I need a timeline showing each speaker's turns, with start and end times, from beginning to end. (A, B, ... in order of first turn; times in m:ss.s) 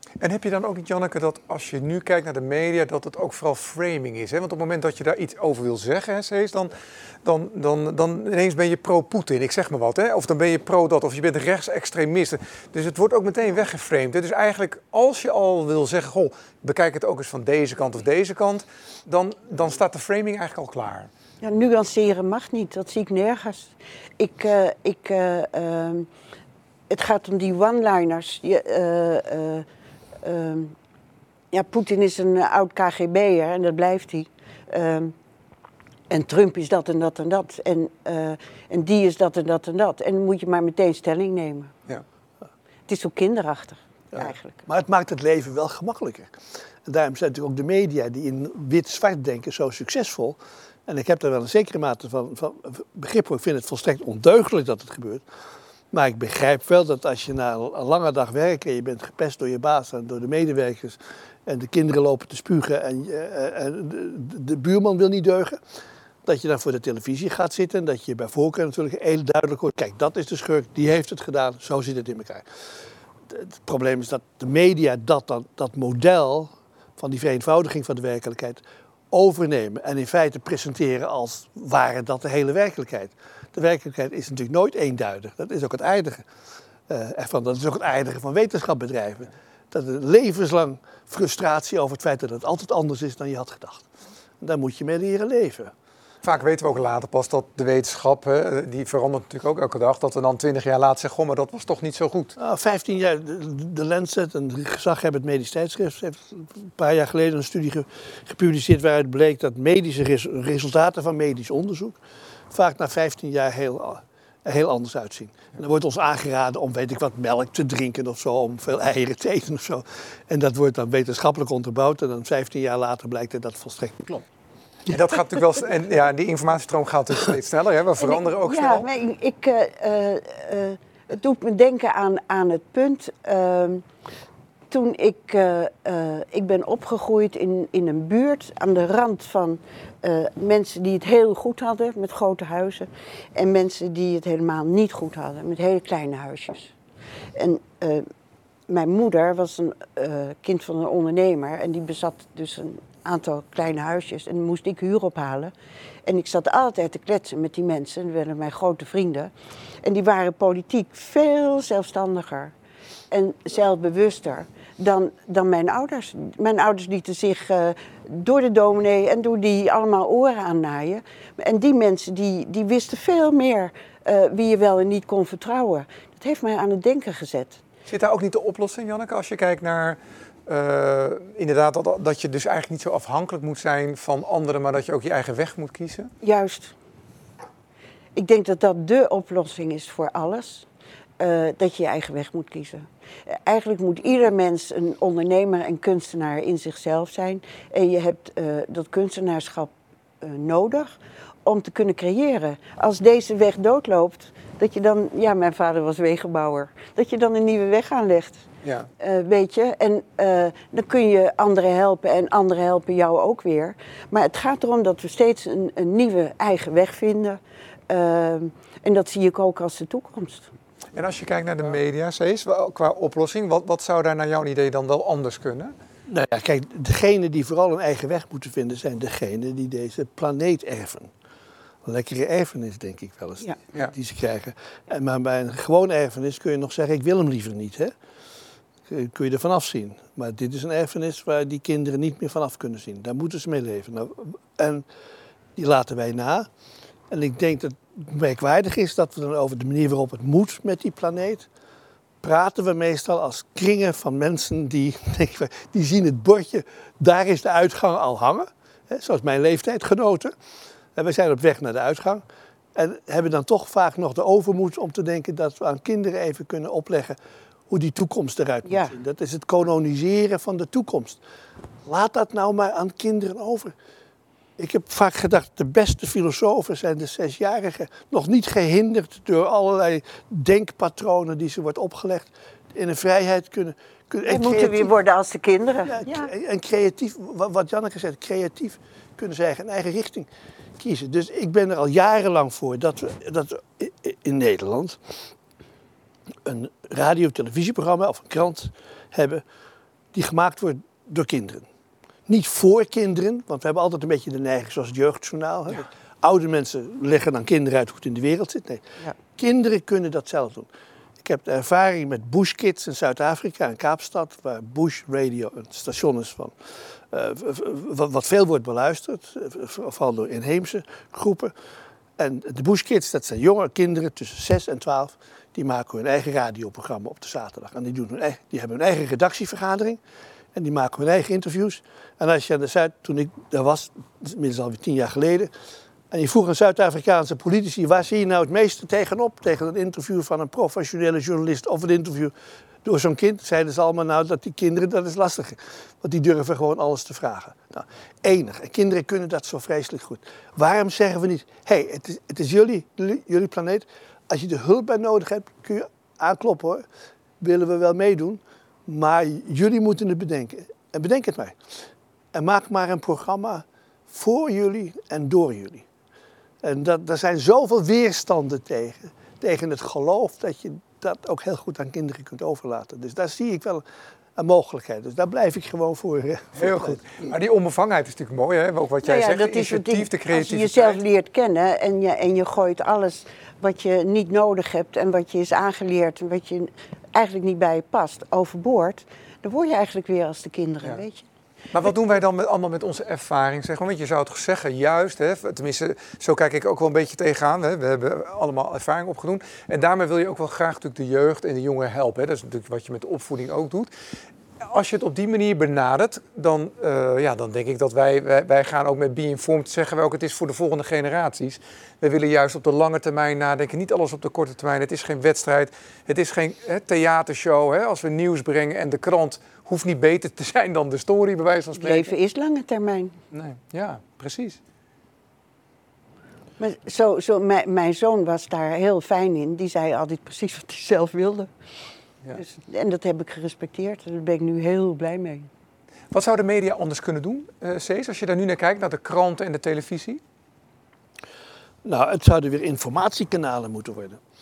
0:00.2-0:21.1 A
0:21.4-0:26.1 B
0:26.9-0:29.6 B
0:30.2-0:30.7 B
0:31.5-0:35.1 B
0:36.1-0:41.7 B
0:42.9-0:44.6 B
0:44.6-0:46.3 C
0:46.8-0:55.2 C
0:55.9-1:05.6 C
1:06.2-1:12.4 C
1:13.3-1:26.2 C
1:26.9-1:33.8 C
1:34.4-1:35.7 C
1:36.2-1:42.4 A
1:42.4-1:52.0 C
1:52.5-2:04.2 C
2:04.9-2:08.9 A
2:08.0-2:13.8 B
2:14.7-2:26.7 B
2:27.4-2:28.0 B
2:28.7-2:35.5 B
2:36.0-2:39.3 B
2:39.8-2:42.5 B
2:43.1-2:57.6 B
2:57.9-3:06.1 A
3:06.2-3:06.7 B
3:08.2-3:10.6 B
3:11.2-3:28.4 B
3:28.6-3:28.9 A
3:29.0-3:40.5 B
3:40.9-3:45.7 A
3:46.1-3:51.1 C
3:51.8-3:57.9 C
3:58.9-4:04.8 C
4:05.6-4:06.5 C
4:07.1-4:11.5 C
4:12.2-4:20.3 C
4:21.0-4:22.2 C
4:22.7-4:27.2 C
4:27.7-4:31.2 C
4:28.6-4:28.9 B
4:31.8-4:33.7 C
4:34.6-4:44.9 C
4:44.2-4:46.3 B
4:45.8-4:50.3 C
4:50.8-4:55.2 C
4:56.4-4:59.4 C
5:00.1-5:01.6 C
5:02.3-5:10.7 C
5:11.2-5:16.5 C
5:17.1-5:21.5 C
5:22.2-5:30.0 C
5:30.5-5:35.5 C
5:36.1-5:42.3 C
5:42.8-5:56.8 C
5:57.4-6:01.6 C
6:02.3-6:05.9 C
6:06.6-6:13.8 C
6:14.4-6:17.0 C
6:16.6-6:21.0 A
6:19.0-6:31.2 B
6:31.7-6:43.9 A
6:44.6-7:02.1 A
7:01.8-7:03.2 B
7:03.3-7:04.6 A
7:06.6-7:11.5 B
7:12.3-7:15.5 B
7:16.1-7:20.2 A
7:21.8-7:24.2 C